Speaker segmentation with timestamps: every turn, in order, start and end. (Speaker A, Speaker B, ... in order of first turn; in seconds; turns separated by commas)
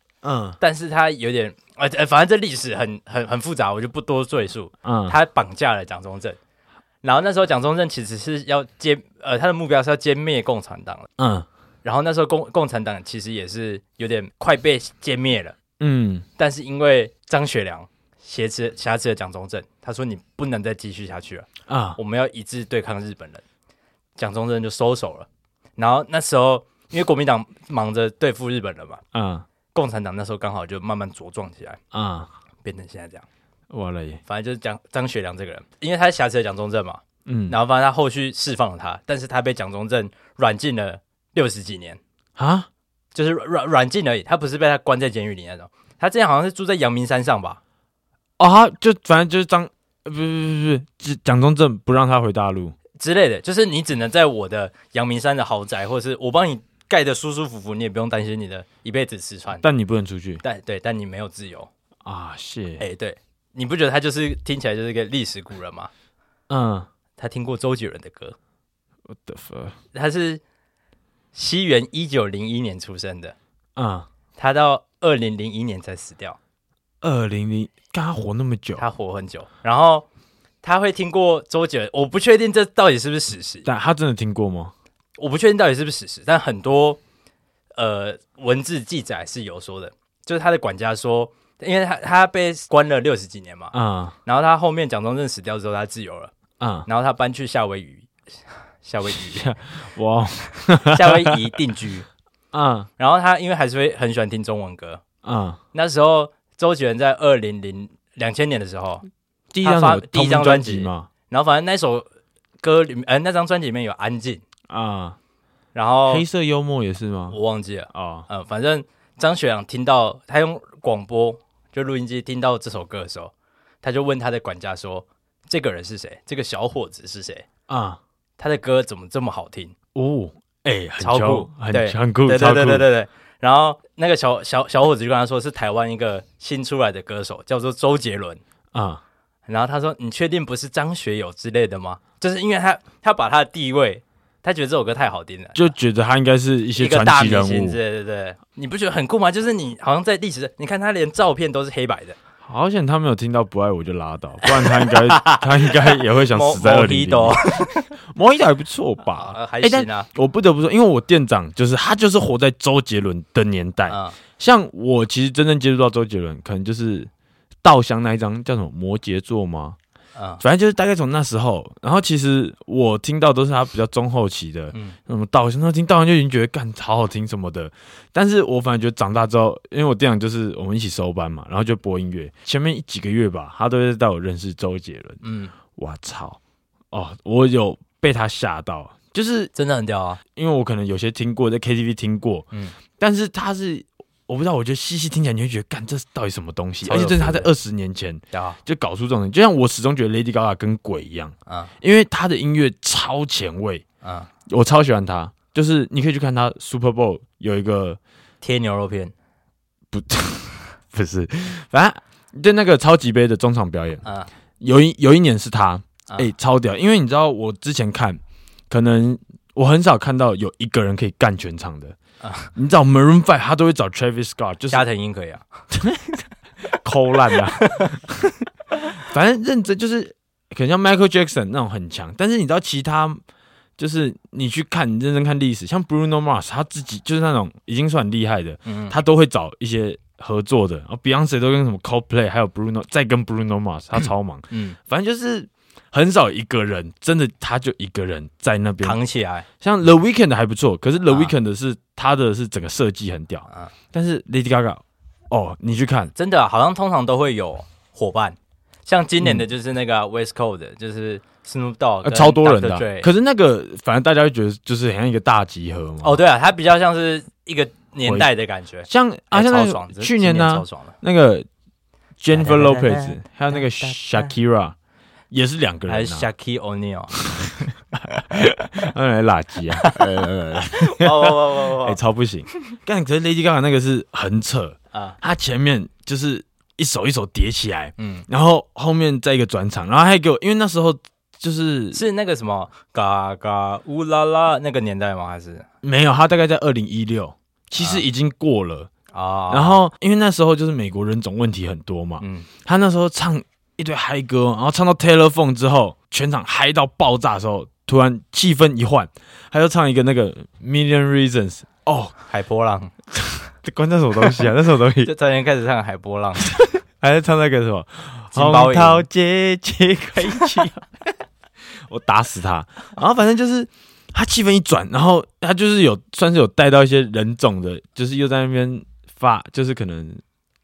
Speaker A: 0.2-0.6, Speaker B: 0.6-6.4, Speaker A: 4.8-5.2, Speaker B: 7.0-11.1, Speaker A: 11.2-11.5, Speaker B: 11.8-15.6, Speaker A: 15.8-16.3, Speaker B: 16.4-23.4, Speaker A: 21.7-22.0, Speaker B: 24.2-29.0, Speaker A: 29.1-29.5, Speaker B: 29.7-31.8, Speaker A: 31.9-32.3, Speaker B: 32.6-33.2, Speaker A: 33.7-34.2, Speaker B: 34.3-42.0, Speaker A: 37.3-37.6, Speaker A: 42.4-42.7, Speaker B: 43.1-47.6, Speaker A: 48.4-52.8, Speaker B: 53.0-59.6, Speaker A: 59.6-60.4, Speaker B: 60.4-61.7, Speaker A: 62.0-62.8, Speaker B: 62.8-65.9, Speaker A: 66.5-66.9, Speaker B: 67.2-68.4, Speaker A: 69.1-69.8, Speaker B: 69.9-70.4, Speaker B: 71.3-73.3, Speaker A: 73.8-74.1, Speaker B: 74.4-76.4, Speaker A: 77.0-78.8, Speaker B: 78.8-80.1, Speaker B: 80.6-83.7, Speaker A: 83.7-84.7, Speaker B: 85.2-87.0, Speaker B: 87.8-96.3, Speaker A: 93.7-94.2, Speaker A: 96.6-96.9, Speaker B: 96.9-98.1, Speaker B: 98.8-99.5, Speaker A: 99.1-101.5, Speaker B: 100.8-102.1, Speaker A: 102.5-102.9, Speaker B: 103.0-105.0, Speaker A: 105.2-105.6, Speaker B: 105.7-109.1, Speaker A: 109.5-111.1, Speaker B: 109.6-112.1, Speaker B: 112.6-114.4, Speaker A: 114.7-115.2, Speaker B: 115.7-116.3, Speaker A: 116.1-117.4, Speaker B: 117.3-127.5, Speaker A: 117.9-118.3, Speaker A: 127.7-128.0, Speaker B: 128.4-129.8, Speaker A: 129.9-132.9, Speaker B: 131.0-138.4, Speaker A: 138.7-139.0, Speaker B: 139.5-145.7, Speaker A: 145.6-147.8, Speaker B: 146.8-152.2, Speaker A: 152.4-167.1, Speaker B: 154.4-157.9, Speaker B: 159.1-160.1, Speaker B: 163.9-164.2, Speaker A: 167.6-169.8, Speaker B: 170.2-170.4, Speaker A: 170.4-185.2, Speaker B: 185.2-185.6, Speaker A: 185.7-186.4, Speaker A: 186.9-189.5, Speaker B: 189.6-190.2, Speaker A: 190.3-192.5, Speaker A: 193.0-203.8, Speaker B: 196.8-197.5, Speaker B: 198.3-198.6, Speaker B: 204.0-204.3, Speaker A: 204.5-208.0, Speaker B: 208.4-209.1, Speaker A: 209.9-214.0, Speaker B: 214.0-214.3, Speaker A: 214.6-222.0, Speaker B: 222.2-222.5, Speaker A: 222.6-224.8, Speaker B: 224.7-225.4, Speaker A: 225.7-233.2, Speaker B: 227.6-227.9, Speaker A: 233.8-249.0, Speaker B: 238.7-239.0, Speaker B: 244.5-244.8, Speaker B: 248.8-249.5, Speaker A: 249.6-256.1, Speaker B: 251.1-251.3, Speaker B: 256.1-263.1, Speaker A: 262.0-266.2, Speaker B: 266.0-271.0, Speaker A: 268.0-268.3, Speaker A: 268.8-271.5, Speaker A: 272.2-274.8, Speaker B: 272.3-274.3, Speaker A: 275.3-276.3, Speaker B: 275.9-277.2, Speaker A: 277.3-292.0, Speaker B: 279.8-282.0, Speaker B: 288.0-288.3, Speaker B: 291.9-295.7, Speaker A: 295.8-298.9, Speaker B: 297.8-298.0, Speaker B: 299.1-299.8, Speaker A: 299.5-312.2, Speaker B: 302.2-302.5, Speaker B: 312.3-312.9, Speaker A: 313.1-315.1, Speaker B: 315.0-316.6, Speaker A: 316.5-320.9, Speaker B: 318.3-319.1, Speaker A: 321.9-330.2